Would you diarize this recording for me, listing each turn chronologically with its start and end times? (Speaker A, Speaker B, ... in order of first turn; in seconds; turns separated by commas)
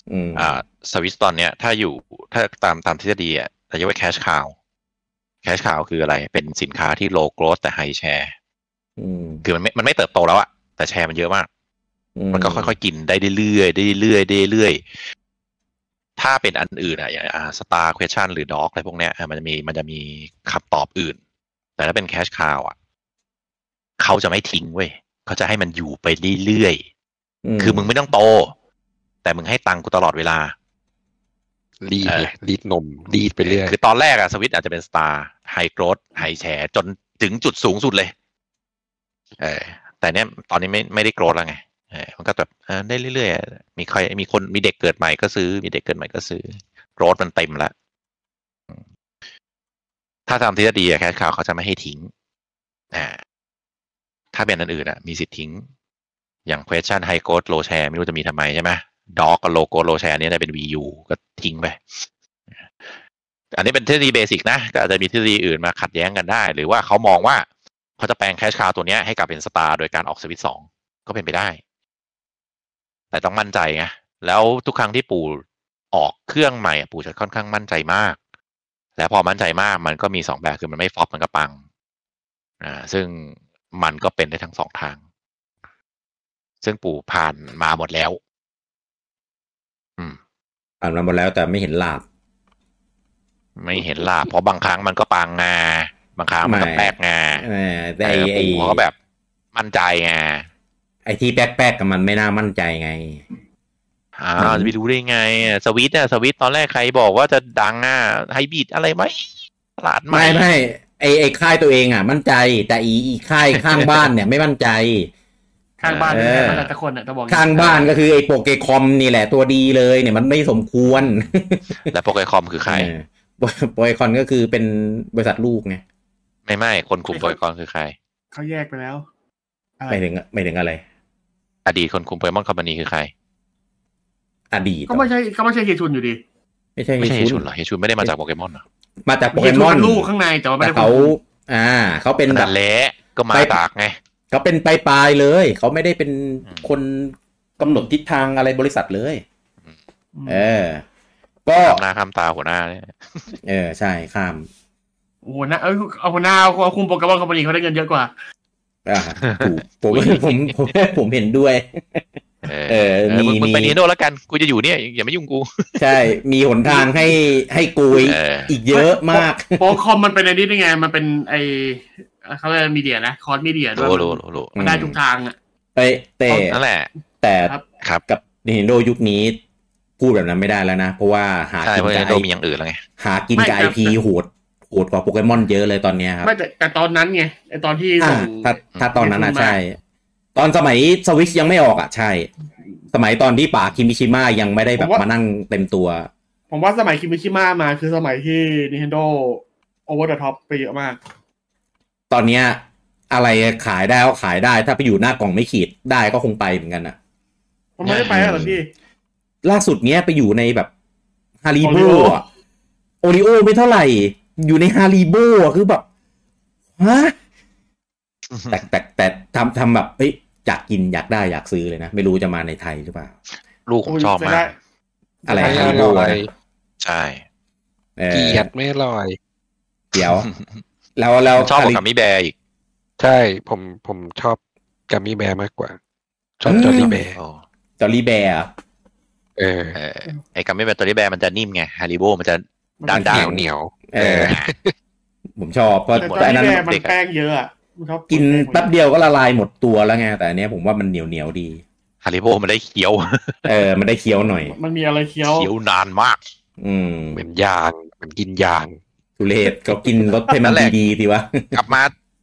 Speaker A: 0.1-0.6, Speaker B: 0.4-4.5, Speaker B: 5.4-8.3, Speaker A: 9.0-9.4, Speaker B: 9.4-11.5, Speaker A: 12.2-12.8, Speaker B: 12.3-14.8, Speaker B: 16.2-21.2, Speaker B: 21.8-22.8, Speaker B: 24.0-26.8, Speaker A: 27.4-27.9, Speaker B: 27.6-28.5, Speaker B: 29.2-30.5, Speaker C: 31.8-33.8, Speaker B: 33.4-38.1, Speaker B: 39.4-47.7, Speaker B: 50.3-52.1, Speaker B: 52.9-53.2, Speaker B: 54.3-55.6, Speaker B: 56.5-62.1, Speaker B: 63.5-67.5, Speaker B: 68.0-71.6, Speaker B: 73.1-78.2, Speaker B: 79.0-81.6, Speaker B: 82.6-85.0, Speaker B: 86.6-88.2, Speaker A: 90.8-92.0, Speaker B: 93.6-97.5, Speaker A: 96.4-98.8, Speaker B: 98.0-98.9, Speaker B: 99.5-100.5, Speaker A: 101.1-103.2, Speaker B: 104.2-110.5, Speaker A: 104.4-104.7, Speaker A: 110.1-115.1, Speaker B: 113.6-114.0, Speaker D: 115.8-117.9, Speaker B: 115.8-116.7, Speaker A: 116.1-116.7, Speaker A: 117.3-121.9, Speaker B: 120.8-121.2, Speaker B: 121.9-122.9, Speaker A: 122.7-125.8, Speaker B: 126.5-128.0, Speaker D: 127.1-127.4, Speaker D: 128.3-129.1, Speaker A: 129.9-130.8, Speaker B: 131.7-133.1, Speaker A: 134.5-135.1, Speaker D: 134.9-136.2, Speaker A: 136.8-137.4, Speaker B: 137.0-138.6, Speaker A: 139.1-140.1, Speaker D: 139.3-141.2, Speaker A: 140.6-142.5, Speaker B: 142.3-143.9, Speaker A: 143.3-143.6, Speaker A: 144.3-149.2, Speaker D: 150.2-150.4, Speaker A: 150.3-150.8, Speaker A: 151.5-151.8, Speaker B: 151.6-153.3, Speaker A: 153.4-154.5, Speaker D: 155.2-158.1, Speaker A: 158.9-162.0, Speaker B: 159.2-160.5, Speaker B: 162.4-165.8, Speaker A: 162.7-163.8, Speaker A: 165.8-169.8, Speaker D: 166.7-167.2, Speaker B: 168.0-168.6, Speaker D: 168.7-175.4, Speaker B: 173.8-174.6, Speaker A: 174.6-175.0, Speaker A: 175.8-176.6, Speaker B: 176.3-176.9, Speaker A: 177.2-177.5, Speaker A: 178.1-179.4, Speaker A: 180.0-182.3, Speaker B: 181.6-182.8, Speaker A: 183.0-186.3, Speaker D: 183.4-184.0, Speaker D: 186.2-189.6, Speaker A: 188.0-189.8, Speaker A: 190.3-192.3, Speaker A: 192.9-196.1, Speaker D: 194.8-195.1, Speaker D: 196.5-201.0, Speaker A: 202.1-207.0, Speaker D: 207.8-208.7, Speaker B: 207.8-208.4, Speaker A: 207.9-208.6, Speaker A: 209.4-210.7, Speaker A: 211.4-212.2, Speaker D: 211.6-212.2, Speaker A: 213.0-215.8, Speaker A: 216.8-217.2, Speaker B: 218.3-218.6, Speaker A: 218.5-223.2, Speaker B: 223.7-224.6, Speaker D: 223.9-224.5, Speaker A: 225.3-226.3, Speaker D: 225.3-226.0, Speaker C: 225.3-226.3, Speaker B: 226.8-227.2, Speaker A: 228.0-228.5, Speaker C: 228.1-229.2, Speaker A: 229.9-230.3, Speaker B: 229.9-230.5, Speaker A: 231.0-231.8, Speaker B: 231.4-232.3, Speaker C: 233.0-235.8, Speaker C: 236.4-237.2, Speaker A: 236.5-237.0, Speaker B: 236.5-237.4, Speaker A: 237.8-238.5, Speaker C: 239.4-239.8, Speaker B: 239.8-243.3, Speaker D: 242.8-243.2, Speaker A: 242.9-244.3, Speaker C: 243.0-244.7, Speaker B: 244.1-244.5, Speaker A: 245.4-246.7, Speaker B: 245.9-246.9, Speaker D: 246.0-248.7, Speaker A: 248.1-251.6, Speaker B: 252.0-253.5, Speaker A: 253.4-254.6, Speaker D: 254.5-255.5, Speaker B: 255.2-256.2, Speaker A: 256.6-257.2, Speaker C: 257.1-258.8, Speaker A: 259.2-261.6, Speaker B: 260.3-260.7, Speaker B: 261.5-261.9